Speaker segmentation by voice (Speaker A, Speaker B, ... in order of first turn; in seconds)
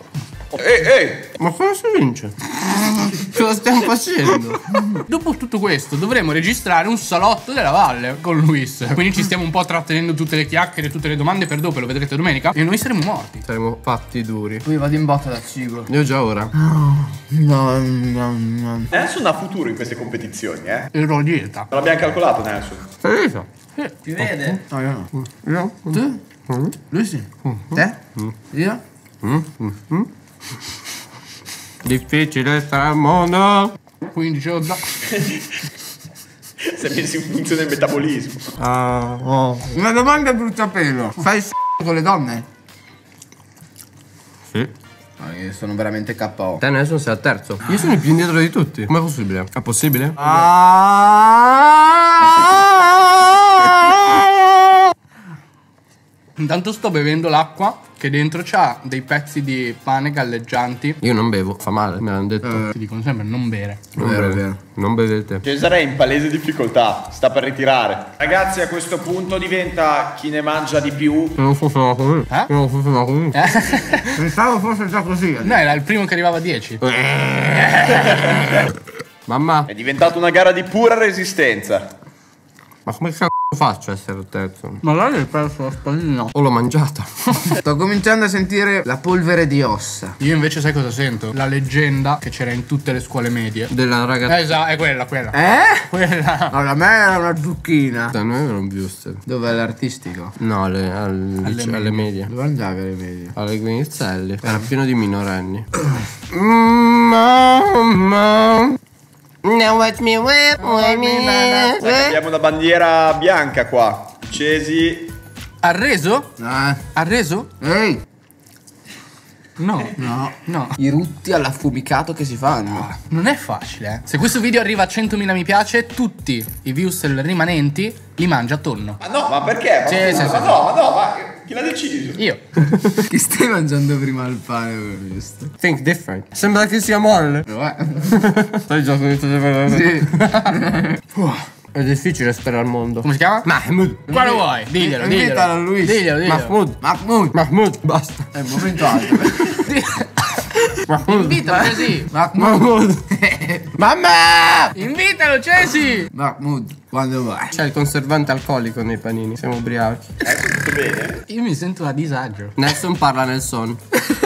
Speaker A: 0.5-1.3, 18.9-20.9, 21.7-22.9, 35.1-35.4, 36.6-38.5, 65.4-71.4, 79.7-81.9, 111.8-115.1, 129.0-132.2, 160.2-161.2
Speaker B: 1.3-5.0, 13.4-14.6, 15.9-16.5, 23.0-23.5, 24.0-24.6, 25.1-26.8, 27.4-28.3, 29.2-30.1, 31.8-33.8, 38.6-39.7, 46.6-54.8, 61.0-62.7, 64.0-65.4, 71.4-73.4, 76.8-78.7, 79.3-79.7, 82.8-84.8, 86.3-87.5, 93.7-94.4, 98.1-99.2, 100.4-102.3, 103.3-105.7, 106.3-108.8, 109.4-112.2, 132.6-133.1, 135.6-137.5, 138.0-140.6, 141.7-144.2, 146.2-146.8, 147.3-149.7, 150.8-151.8, 152.3-153.1, 153.8-154.8, 157.5-160.1, 162.6-163.8
Speaker C: 5.0-13.4, 20.9-21.7, 34.1-35.0, 56.4-61.0, 62.7-63.9, 73.3-74.2, 75.4-76.8, 84.8-86.3, 90.2-93.7, 94.2-95.4, 95.9-96.5, 101.4-102.1, 111.3-111.7, 115.6-116.4, 116.9-117.5, 119.6-120.8, 122.8-129.0, 129.8-130.6, 132.2-132.4, 141.1-141.4, 143.0-143.5, 144.1-146.6, 149.6-150.1, 150.9-152.1, 154.7-156.1, 161.3-162.6
Speaker D: 14.6-15.9, 16.5-18.9, 24.7-25.1, 25.9-26.2, 26.9-28.0, 28.5-28.8, 39.7-42.5, 45.2-46.6, 64.0-64.6, 74.1-75.6, 87.6-90.2, 95.3-95.9, 96.5-98.1, 99.2-100.3, 102.2-103.3, 110.8-111.9, 116.4-116.8, 117.6-118.0, 120.0-122.9, 133.1-135.5, 137.5-138.2, 139.7-140.9, 144.1-146.1, 146.8-147.3, 148.3-149.7, 151.9-153.8, 156.1-157.6